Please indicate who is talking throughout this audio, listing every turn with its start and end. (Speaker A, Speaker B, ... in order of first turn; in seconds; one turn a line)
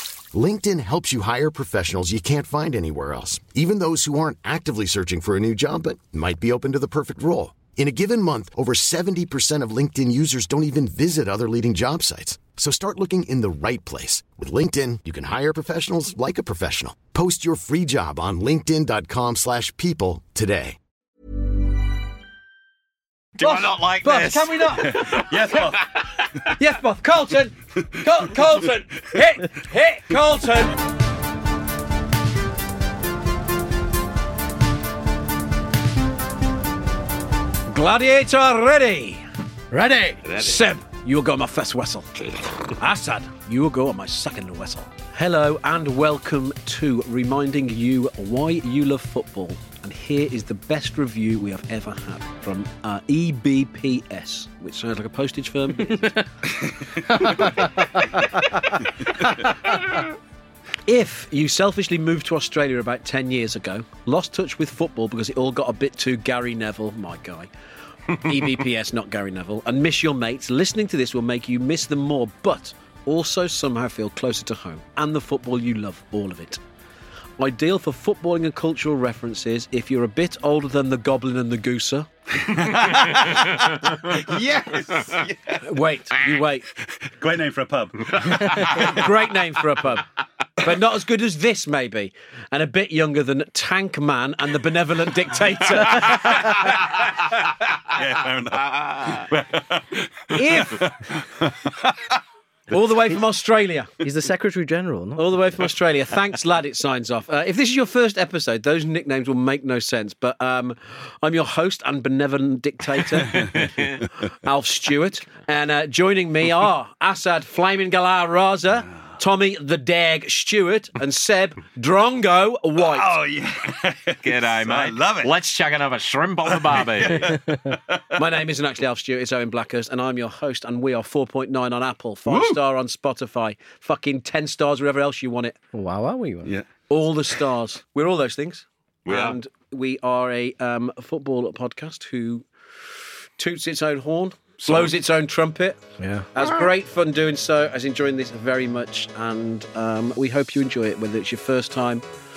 Speaker A: 0.3-20.8
Speaker B: 23.4-26.4
Speaker C: 23.4-25.6
Speaker D: 24.8-26.0
Speaker C: 26.5-30.8
Speaker C: 37.7-56.2
Speaker B: 40.2-40.7
Speaker D: 56.5-57.2
Speaker E: 57.1-58.2
Speaker C: 57.2-57.7
Speaker C: 58.7-59.8
Speaker C: 60.9-67.5
Speaker C: 68.1-76.6
Speaker C: 77.4-82.1
Speaker D: 82.3-85.7
Speaker B: 82.7-84.4
Speaker C: 85.6-86.7
Speaker D: 86.7-89.1
Speaker C: 88.5-90.1
Speaker C: 90.6-97.0
Speaker D: 97.8-102.2
Speaker B: 99.0-99.3
Speaker C: 100.3-100.8
Speaker C: 102.7-103.9
Speaker E: 104.0-105.2
Speaker C: 105.2-123.2
Speaker B: 113.5-113.9
Speaker D: 122.8-125.3
Speaker B: 124.2-127.4
Speaker D: 126.5-128.1
Speaker E: 127.2-127.7
Speaker C: 128.2-135.6
Speaker D: 132.3-132.6
Speaker E: 135.7-136.5
Speaker C: 136.9-142.5
Speaker B: 139.1-139.4
Speaker C: 143.4-145.8
Speaker E: 146.0-146.3
Speaker C: 146.3-152.0